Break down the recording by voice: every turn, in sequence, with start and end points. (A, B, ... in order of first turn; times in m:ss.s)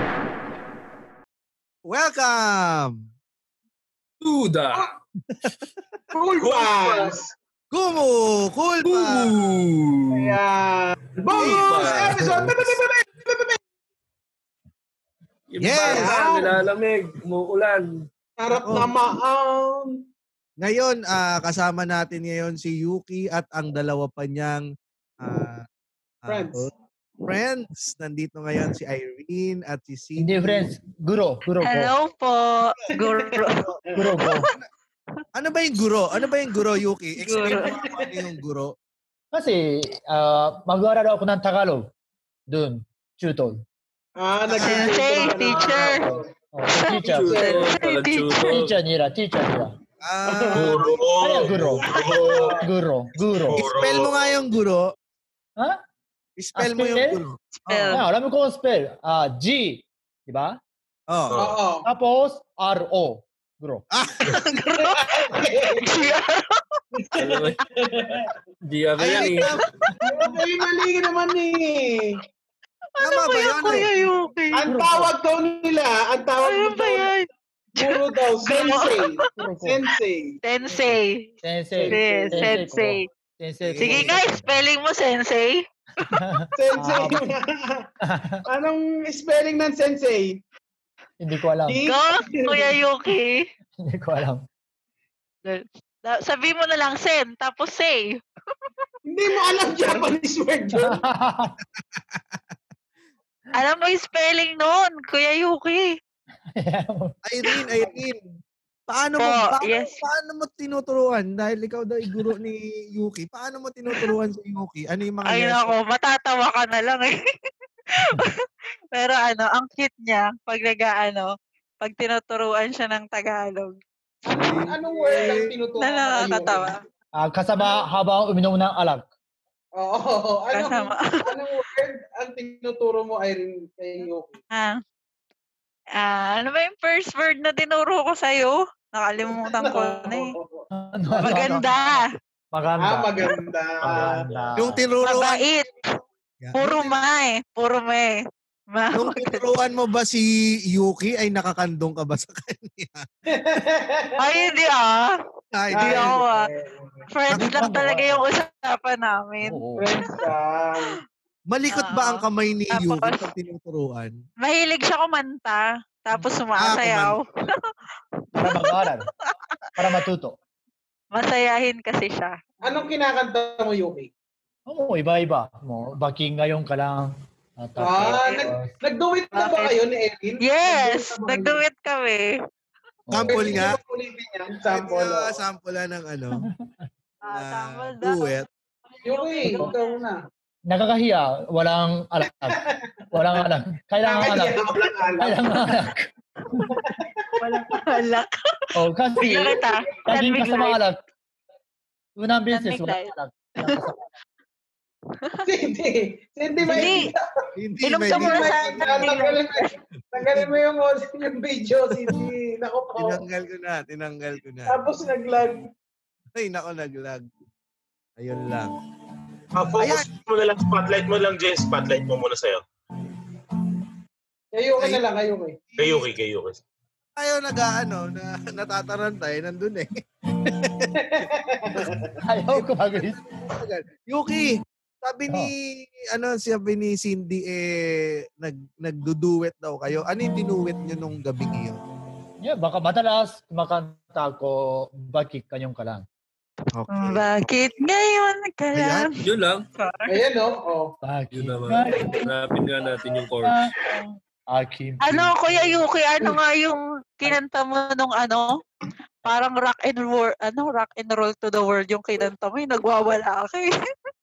0:01.8-0:03.0 A
0:04.2-0:04.8 B
0:05.3-0:05.7 A
0:06.1-0:07.2 C
0:06.4-0:07.2 D
0:07.7-0:09.4 A
0:08.8-0:10.4 B
0:10.1-0:13.6 C
0:11.3-0:12.2 B
0:11.4-0:12.8 A
0:15.5-0:18.0 B
0:15.6-0:16.1 A
0:15.8-0:16.6 C
0:18.4-0:19.9 C
0:18.5-0:18.9 A
0:20.6-0:24.7 A
0:25.2-0:25.6 A
0:26.2-0:26.7 A
0:26.3-0:26.7 C
0:27.2-0:30.7 A
0:30.2-0:31.9 E
0:31.6-0:34.4 F
0:33.0-0:33.3 C
0:34.0-0:34.5 E
0:35.3-0:38.8 A
0:37.2-0:37.7 F
0:37.7-0:38.1 C
0:39.3-0:41.9 E
0:42.5-0:43.6 E
0:44.2-0:46.2 C
0:44.5-0:46.0 A
0:44.6-0:46.0 F
0:46.5-0:47.4 E
0:46.7-0:48.6 F
0:46.9-0:47.7 C
0:47.0-0:48.7 B
0:48.5-0:49.7 E
0:50.0-0:50.9 A
0:50.3-0:50.9 C
0:50.5-0:52.6 D
0:51.2-0:51.8 E
0:52.2-0:52.5 C
0:52.6-0:53.6 E
0:53.3-0:54.3 D
0:53.6-0:54.9 A
0:55.6-0:55.8 E
0:56.4-0:58.0 A
0:56.6-0:57.2 E
0:57.6-0:58.0 F
0:57.9-1:00.6 E
1:01.1-1:01.4 A
1:01.3-1:01.6 D
1:01.4-1:01.8 C
1:01.8-1:03.8 E
1:03.9-1:04.5 A
1:04.4-1:06.8 F
1:04.8-1:06.2 C
1:07.0-1:08.3 C
1:07.2-1:07.6 B
1:08.6-1:09.5 B
1:09.0-1:09.6 A
1:10.0-1:12.1 C
1:13.0-1:13.8 A
1:13.0-1:14.7 F
1:14.5-1:17.1 C
1:14.7-1:15.1 E
1:16.4-1:17.2 F
1:17.7-1:20.4 C
1:17.8-1:19.0 F
1:19.3-1:19.8 E
1:20.4-1:21.3 F
1:21.4-1:24.6 E
1:21.7-1:22.5 C
1:21.9-1:23.0 F
1:23.6-1:24.2 A
1:23.8-1:26.1 F
1:26.0-1:27.2 E
1:26.6-1:27.9 C
1:28.0-1:28.4 E
1:28.4-1:30.4 C
1:31.2-1:31.8 E
1:31.6-1:32.7 C
1:31.8-1:33.4 F
1:33.8-1:34.4 E
1:35.4-1:38.7 F
1:39.1-1:41.0 C
1:40.7-1:41.6 E
1:41.9-1:42.4 A
1:43.5-1:45.9 F
1:46.6-1:47.2 E
1:47.2-1:48.2 A
1:48.9-1:55.7 A
1:49.2-1:50.0 F
1:55.2-1:57.1 F
1:58.0-1:58.3 F
1:58.9-2:01.3 F
2:01.8-2:03.7 F
2:04.3-2:06.7 C
2:04.3-2:05.4 A
2:05.8-2:06.7 F
2:07.2-2:09.1 E
2:09.8-2:14.3 C
2:10.5-2:10.9 F
2:16.0-2:20.3 F
2:19.3-2:20.7 C
2:20.7-2:21.8 E
2:21.1-2:22.0 F
2:22.5-2:23.3 E
2:22.8-2:24.2 C
2:23.9-2:24.8 E
2:24.0-2:24.5 D
2:24.6-2:25.4 A
2:25.0-2:25.7 F
2:26.4-2:26.9 A
2:26.6-2:28.2 F
2:28.7-2:29.4 F
2:28.9-2:33.0 A
2:33.3-2:34.1 C
2:34.2-2:35.0 F
2:35.5-2:36.2 A
2:35.7-2:37.0 C
2:35.7-2:36.5 F
2:37.1-2:40.1 F
2:37.3-2:38.2 E
2:39.4-2:39.9 E
2:39.8-2:40.9 C
2:41.5-2:44.1 A
2:41.7-2:43.2 F
2:44.4-2:47.2 F
2:46.6-2:47.2 A
2:48.4-2:49.1 E
2:48.4-2:49.4 F
2:49.8-2:50.4 E
2:51.1-2:52.4 F
2:52.6-2:54.1 C
2:54.7-2:58.7 E
2:57.8-3:01.6 C
2:58.2-2:58.5 F
2:59.3-2:59.7 F
3:00.4-3:02.3 F
3:03.1-3:03.5 E
3:03.1-3:03.8 A
3:03.3-3:05.4 C
3:04.6-3:06.5 A
3:07.2-3:08.3 F
3:07.3-3:08.5 A
3:09.0-3:09.9 F
3:09.0-3:10.2 C
3:09.4-3:09.7 E
3:10.7-3:12.6 E
3:12.3-3:13.4 C
3:13.1-3:14.6 E
3:14.0-3:15.7 C
3:15.2-3:16.6 E
3:16.7-3:17.3 C
3:17.4-3:18.3 F
3:18.8-3:21.0 E
3:19.2-3:20.8 F
3:22.2-3:24.0 E
3:22.5-3:23.1 F
3:25.4-3:27.2 C
3:26.7-3:27.1 F
3:27.6-3:29.0 A
3:27.8-3:29.6 F
3:28.1-3:33.2 C
3:30.2-3:30.5 A
3:33.0-3:34.8 A
3:34.7-3:35.7 C
3:36.4-3:37.3 A
3:38.2-3:38.7 A
3:39.5-3:42.6 D
3:39.8-3:40.1 A
3:44.5-3:45.6 C
3:44.8-3:45.0 A
3:45.7-3:46.1 A
3:45.8-3:46.6 D
3:47.2-3:51.9 A
3:51.0-3:52.1 C
3:52.2-3:53.2 E
3:53.4-4:01.8 A
4:02.4-4:06.0 E
4:06.7-4:07.2 A
4:06.9-4:09.1 F
4:08.7-4:09.1 A
4:09.2-4:09.6 B
4:09.7-4:10.2 F
4:10.1-4:10.9 C
4:11.0-4:12.3 E
4:11.3-4:13.6 B
4:13.4-4:13.7 E
4:14.5-4:16.3 E
4:15.0-4:18.5 F
4:19.2-4:23.7 F